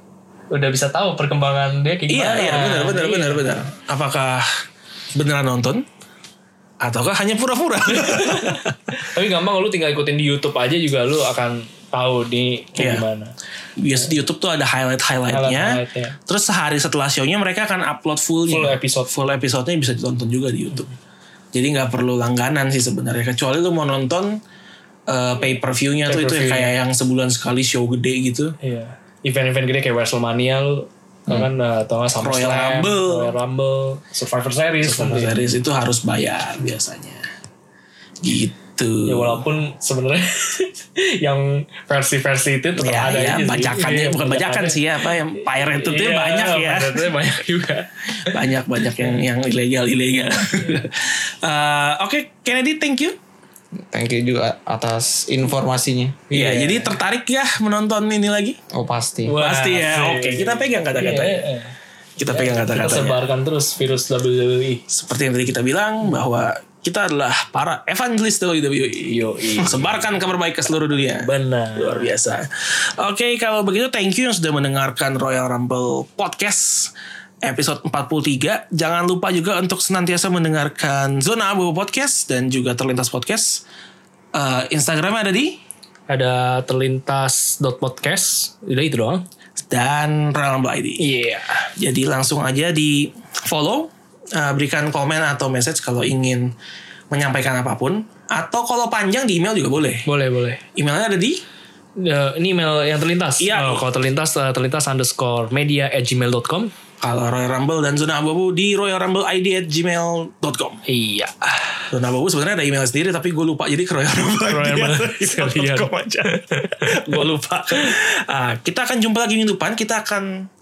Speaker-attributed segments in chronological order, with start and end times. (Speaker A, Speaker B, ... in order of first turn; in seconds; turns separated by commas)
Speaker A: 0.5-3.6, Speaker B: 2.1-4.5, Speaker B: 5.1-5.8, Speaker B: 6.8-8.8, Speaker A: 7.9-13.3, Speaker B: 12.8-13.0, Speaker B: 13.8-20.9, Speaker A: 15.3-16.2, Speaker A: 18.5-19.1, Speaker B: 21.5-24.4, Speaker B: 25.1-28.5, Speaker A: 26.1-26.7, Speaker A: 28.6-35.5, Speaker B: 32.2-33.3, Speaker B: 34.8-37.2, Speaker B: 38.2-39.4, Speaker A: 39.0-48.4, Speaker B: 42.8-47.1, Speaker B: 48.2-53.1, Speaker C: 53.9-56.2, Speaker A: 56.3-57.0, Speaker B: 56.3-58.6, Speaker C: 58.7-59.3, Speaker A: 59.2-61.7, Speaker B: 59.4-61.4, Speaker B: 62.2-63.2, Speaker A: 62.3-64.8, Speaker B: 64.9-83.6, Speaker A: 69.0-70.1, Speaker A: 71.2-72.1, Speaker B: 84.3-85.6, Speaker A: 86.1-89.2, Speaker B: 89.6-91.0, Speaker A: 91.0-91.7, Speaker B: 91.8-96.5, Speaker B: 97.1-100.0, Speaker A: 100.0-100.6, Speaker B: 100.7-101.4, Speaker A: 102.0-106.7, Speaker B: 103.4-103.8, Speaker B: 107.0-110.8, Speaker A: 110.8-111.5, Speaker B: 111.9-120.4, Speaker A: 114.5-117.2